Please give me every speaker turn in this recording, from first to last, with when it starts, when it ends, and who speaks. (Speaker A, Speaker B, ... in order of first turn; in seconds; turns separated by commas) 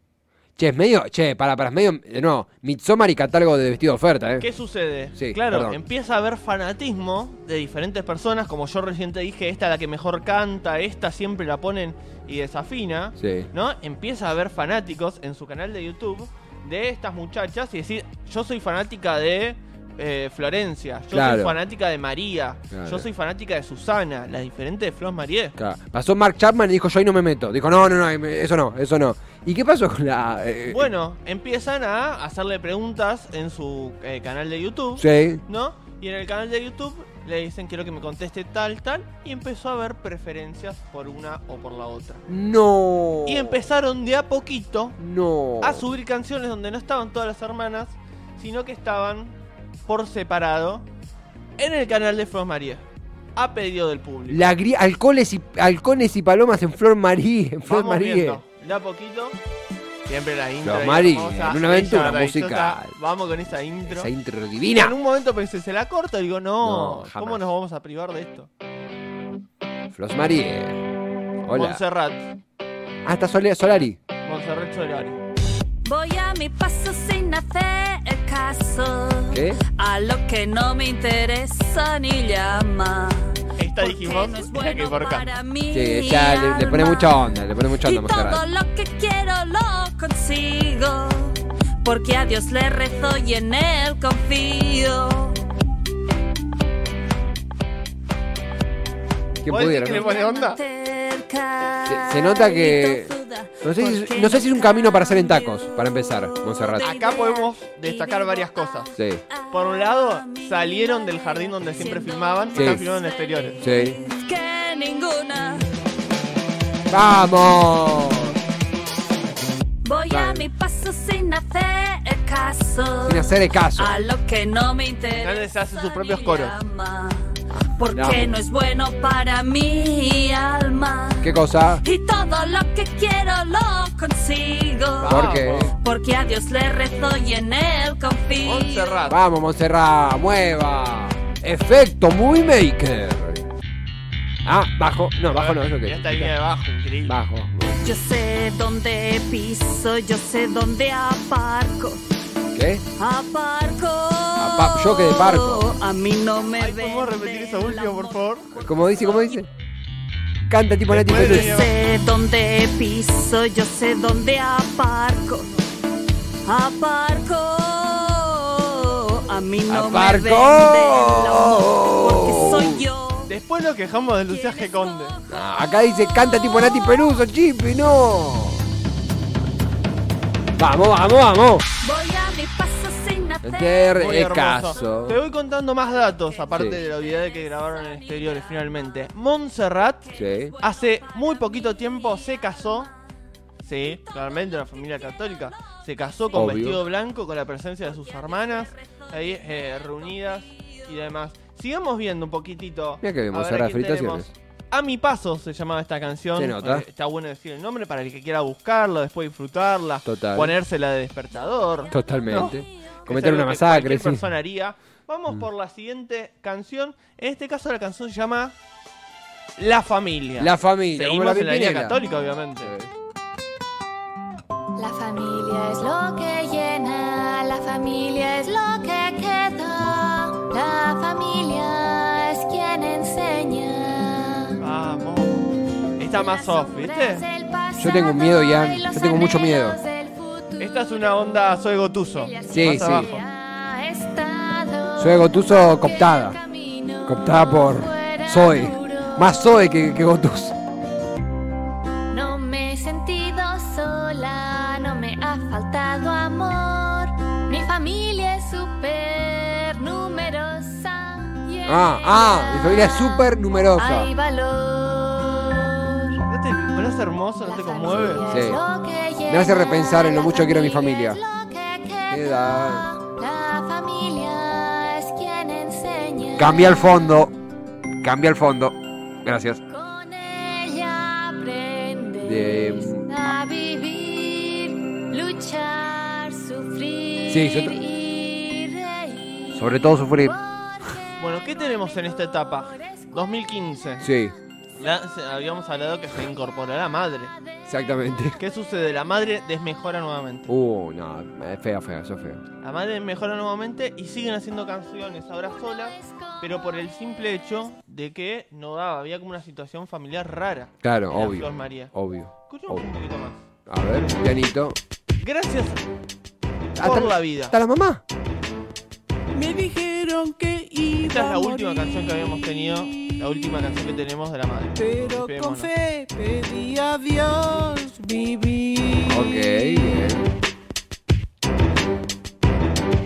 Speaker A: 0.6-4.5, Speaker B: 4.4-25.6, Speaker A: 5.2-5.8, Speaker A: 13.2-13.5, Speaker A: 21.1-21.6, Speaker A: 22.7-23.1, Speaker A: 25.6-30.9, Speaker B: 30.7-42.2, Speaker A: 35.0-35.4, Speaker A: 42.3-43.6, Speaker B: 43.2-45.0, Speaker A: 45.0-45.9, Speaker B: 45.6-49.4, Speaker B: 49.9-50.9, Speaker B: 51.6-52.8, Speaker B: 53.4-54.4, Speaker A: 54.3-58.4, Speaker B: 57.6-59.4, Speaker B: 60.0-64.1, Speaker A: 60.6-63.0, Speaker A: 63.9-64.9, Speaker B: 64.7-68.5, Speaker A: 66.6-67.5, Speaker A: 69.9-70.8, Speaker A: 71.4-71.8, Speaker B: 71.5-72.3, Speaker A: 73.0-74.0, Speaker B: 74.2-75.2, Speaker C: 75.8-95.4, Speaker A: 79.3-79.6, Speaker B: 83.6-85.3, Speaker A: 85.7-88.4, Speaker A: 99.4-100.0, Speaker B: 99.5-100.6, Speaker C: 99.8-115.7, Speaker A: 101.8-106.9, Speaker B: 106.8-108.9, Speaker A: 109.0-109.2, Speaker B: 109.5-113.6, Speaker A: 112.5-112.8, Speaker A: 113.6-114.0, Speaker A: 116.9-118.4, Speaker C: 119.8-139.0, Speaker A: 120.1-120.5, Speaker A: 123.0-124.0, Speaker B: 125.1-126.5, Speaker A: 127.9-128.3, Speaker A: 131.2-131.8, Speaker B: 135.0-135.8, Speaker A: 135.1-135.7, Speaker B: 138.4-139.2, Speaker A: 139.1-143.4, Speaker A: 144.4-146.3, Speaker B: 145.3-147.2, Speaker A: 147.1-147.8, Speaker C: 147.8-152.0, Speaker A: 152.5-152.8, Speaker C: 153.0-159.4, Speaker A: 154.4-155.7, Speaker B: 156.6-158.6, Speaker A: 158.6-159.5, Speaker A: 160.5-161.6, Speaker B: 160.9-161.7, Speaker C: 161.1-165.5, Speaker C: 166.4-173.3, Speaker A: 169.7-172.8, Speaker B: 173.3-175.2, Speaker C: 174.6-175.2, Speaker A: 175.3-178.6, Speaker A: 180.6-181.7, Speaker C: 181.8-183.9, Speaker A: 183.4-185.2, Speaker B: 184.0-192.9, Speaker A: 186.5-186.8, Speaker C: 186.6-188.2, Speaker A: 190.1-190.5, Speaker C: 190.2-191.5, Speaker B: 193.6-218.6, Speaker A: 196.3-196.8, Speaker C: 198.3-199.0, Speaker A: 203.0-204.3, Speaker A: 206.3-206.8, Speaker A: 210.0-210.5, Speaker A: 211.9-214.2, Speaker B: 219.6-222.7, Speaker A: 220.4-222.0, Speaker A: 222.6-222.9, Speaker D: 224.8-234.6, Speaker B: 234.6-237.2, Speaker D: 236.1-241.3, Speaker A: 237.8-239.8, Speaker B: 240.6-243.2, Speaker D: 242.2-249.4, Speaker A: 242.5-243.1, Speaker A: 245.0-246.4, Speaker A: 247.0-250.6, Speaker D: 252.1-266.2, Speaker A: 261.6-264.1, Speaker B: 266.3-268.2, Speaker D: 267.4-276.9, Speaker A: 267.9-268.6, Speaker A: 269.3-271.2, Speaker A: 272.1-272.9, Speaker A: 276.4-277.3, Speaker A: 278.0-279.6, Speaker D: 279.7-293.1, Speaker A: 282.2-283.1, Speaker A: 287.3-287.8, Speaker A: 289.5-290.4, Speaker B: 291.2-294.1, Speaker A: 294.0-294.3, Speaker B: 294.8-297.3, Speaker A: 297.7-298.4, Speaker B: 298.4-300.5, Speaker A: 300.5-302.4, Speaker B: 302.6-311.9, Speaker D: 305.9-306.3, Speaker A: 310.8-312.9, Speaker B: 312.5-313.4, Speaker A: 313.7-314.8, Speaker B: 315.2-315.8, Speaker B: 316.8-317.6, Speaker A: 316.8-318.0, Speaker E: 319.3-323.5, Speaker B: 321.0-325.7, Speaker E: 324.8-330.1, Speaker A: 329.1-330.2